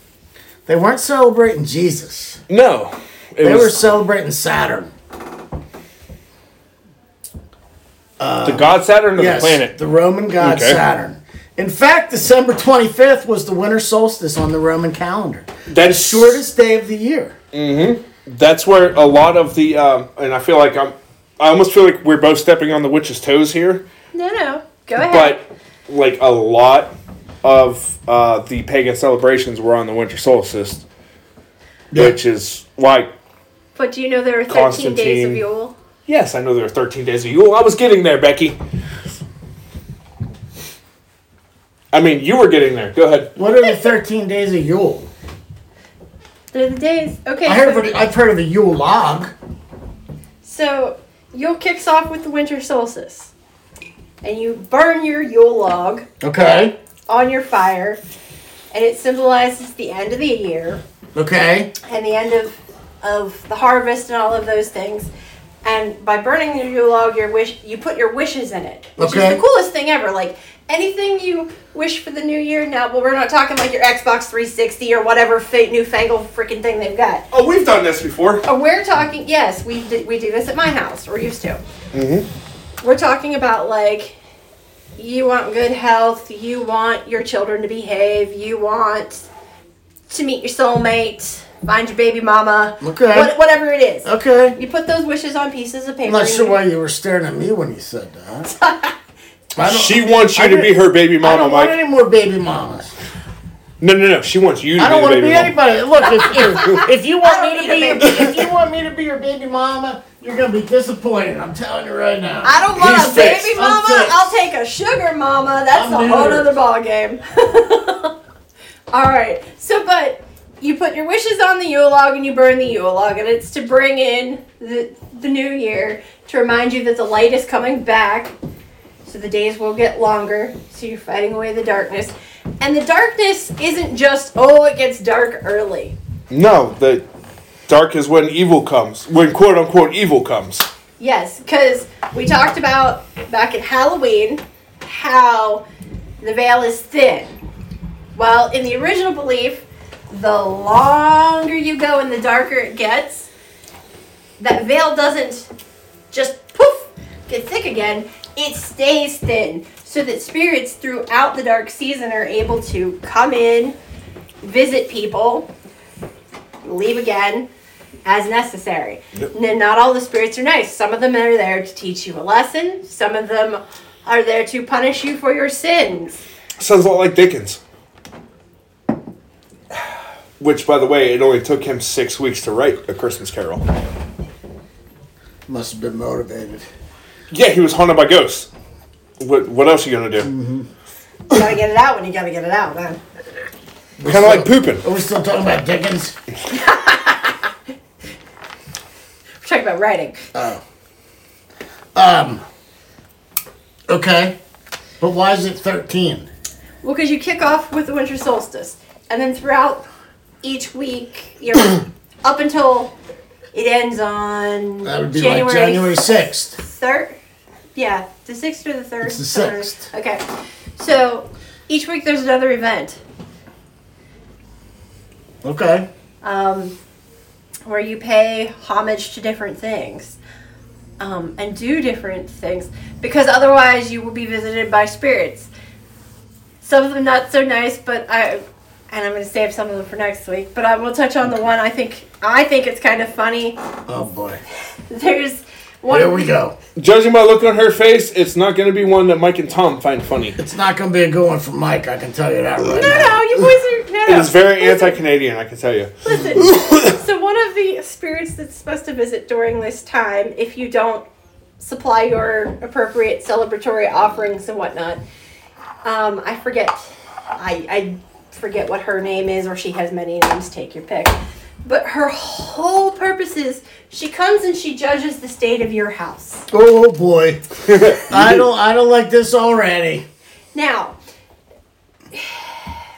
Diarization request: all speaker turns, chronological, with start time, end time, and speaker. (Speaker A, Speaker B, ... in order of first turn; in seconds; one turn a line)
Speaker A: 0.7-2.4
Speaker B: 2.5-3.8
Speaker A: 3.4-4.9
Speaker A: 8.2-17.4
Speaker B: 8.4-9.7
Speaker B: 10.4-10.8
Speaker B: 15.7-16.4
Speaker B: 17.5-23.9
Speaker C: 24.1-25.4
Speaker B: 25.0-30.9
Speaker B: 31.9-33.1
Speaker C: 33.8-35.8
Speaker B: 34.5-35.4
Speaker B: 36.1-38.6
Speaker B: 41.9-43.3
Speaker A: 43.4-45.1
Speaker C: 46.5-48.0
Speaker A: 47.5-49.3
Speaker C: 50.4-53.3
Speaker C: 54.2-56.0
Speaker A: 56.2-56.8
Speaker C: 57.1-58.0
Speaker C: 58.7-60.8
Speaker A: 61.1-61.7
Speaker C: 61.8-65.1
Speaker C: 65.6-77.3
Speaker A: 69.0-69.4
Speaker B: 77.3-78.5
Speaker C: 78.5-81.6
Speaker B: 81.9-82.3
Speaker C: 82.8-84.2
Speaker C: 85.0-89.3
Speaker C: 90.1-96.6
Speaker A: 92.8-93.4
Speaker A: 94.0-94.6
Speaker A: 96.0-98.5
Speaker C: 98.5-99.0
Speaker A: 99.5-102.9
Speaker B: 99.6-101.8
Speaker B: 103.8-105.5
Speaker A: 104.8-114.4
Speaker C: 106.2-108.4
Speaker C: 112.4-118.1
Speaker B: 112.8-113.5
Speaker A: 115.7-116.5
Speaker C: 118.9-128.3
Speaker C: 129.1-135.9
Speaker B: 136.3-137.1
Speaker B: 137.7-140.7
Speaker C: 141.0-145.6
Speaker C: 146.2-147.3
Speaker C: 148.2-153.3
Speaker C: 154.4-155.5
Speaker C: 156.1-163.8
Speaker C: 164.4-165.5
Speaker C: 166.6-167.5
Speaker C: 168.1-176.2
Speaker B: 176.6-177.6
Speaker B: 180.4-183.7
Speaker A: 185.5-186.7
Speaker B: 187.3-188.5
Speaker B: 189.2-190.3
Speaker A: 190.2-190.7
Speaker C: 191.3-193.0
Speaker A: 194.0-196.2
Speaker B: 194.1-194.8
Speaker C: 196.5-197.5
Speaker C: 199.4-200.3
Speaker A: 200.3-200.6
Speaker A: 201.9-202.4
Speaker A: 203.9-204.4
Speaker A: 205.0-206.3
Speaker C: 206.8-209.9
Speaker C: 210.4-212.9
Speaker C: 213.5-217.2
Speaker A: 214.8-216.6
Speaker C: 217.8-220.2
Speaker A: 219.0-219.9
Speaker C: 220.8-223.0
Speaker A: 225.4-225.9
Speaker C: 226.2-226.7
Speaker C: 227.7-230.2
Speaker C: 231.0-235.5
Speaker C: 236.6-243.6
Speaker A: 243.9-244.4
Speaker C: 244.9-246.3
Speaker A: 245.9-246.6
Speaker B: 246.8-250.4
Speaker A: 250.4-253.2
Speaker C: 252.6-255.0
Speaker B: 254.1-256.9
Speaker C: 256.1-261.1
Speaker C: 261.6-265.0
Speaker C: 265.8-276.5
Speaker A: 276.5-280.1
Speaker B: 277.7-278.4
Speaker C: 280.5-281.0